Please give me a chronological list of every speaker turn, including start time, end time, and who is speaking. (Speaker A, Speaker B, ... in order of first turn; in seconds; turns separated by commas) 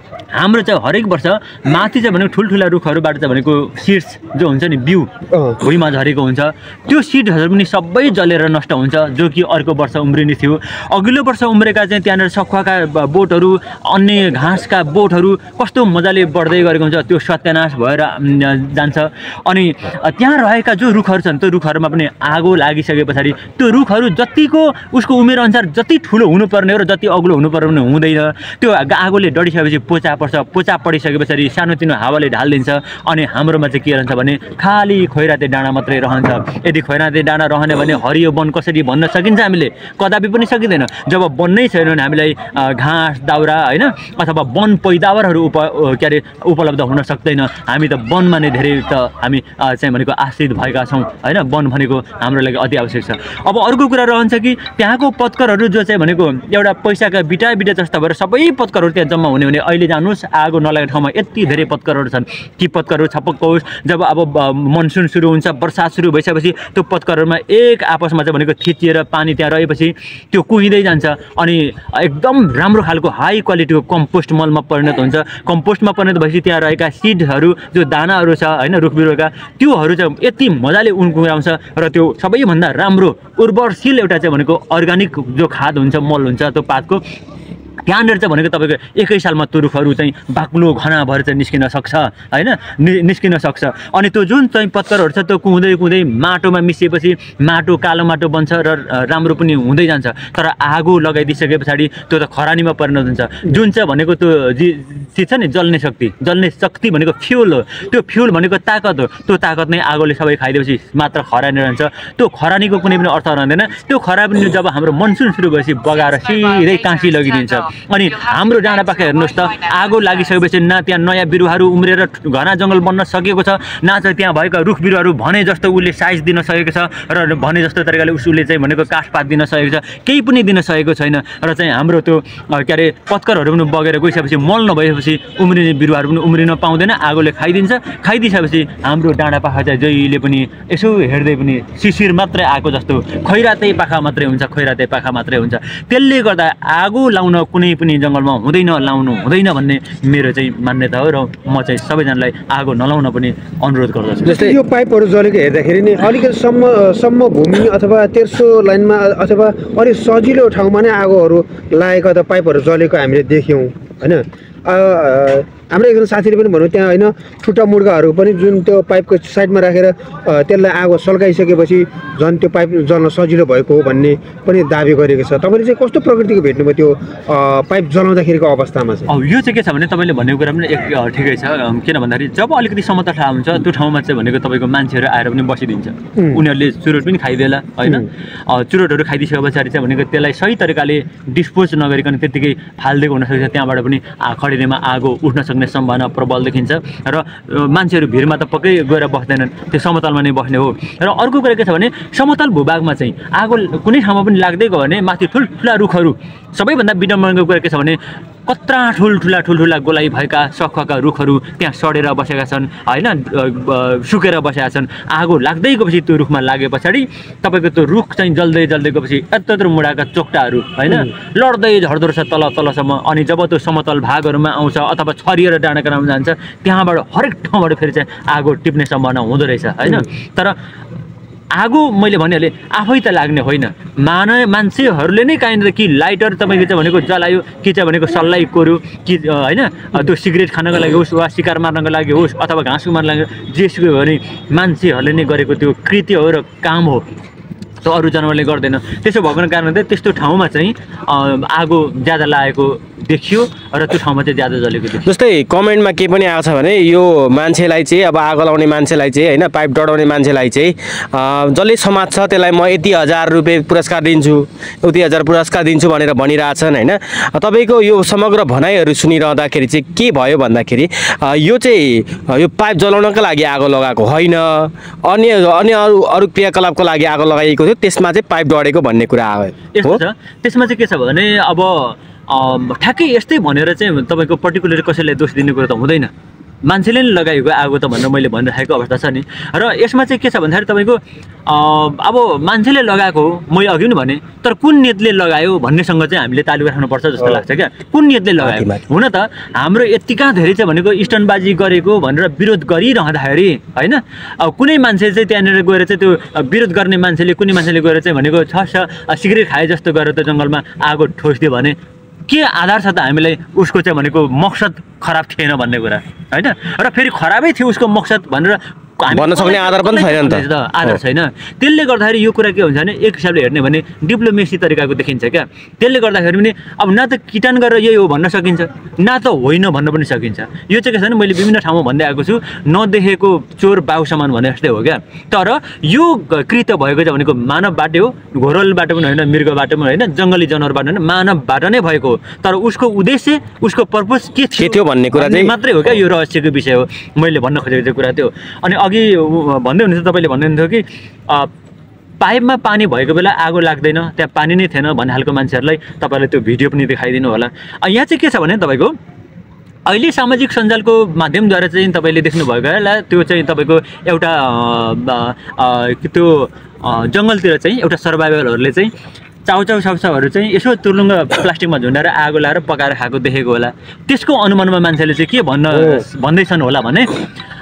Speaker A: 0.3-87.0, Speaker B: 5.3-5.6, Speaker A: 87.8-154.5, Speaker B: 154.2-179.1, Speaker A: 179.1-230.6, Speaker B: 186.2-186.4, Speaker A: 231.5-247.0, Speaker A: 247.8-255.1, Speaker C: 255.0-280.0, Speaker A: 279.7-286.1, Speaker A: 286.6-311.8, Speaker C: 298.4-298.8, Speaker A: 312.3-351.5, Speaker C: 319.1-321.0, Speaker C: 344.6-345.5, Speaker A: 352.2-358.9, Speaker A: 359.9-368.9, Speaker A: 369.4-377.2, Speaker B: 375.7-376.0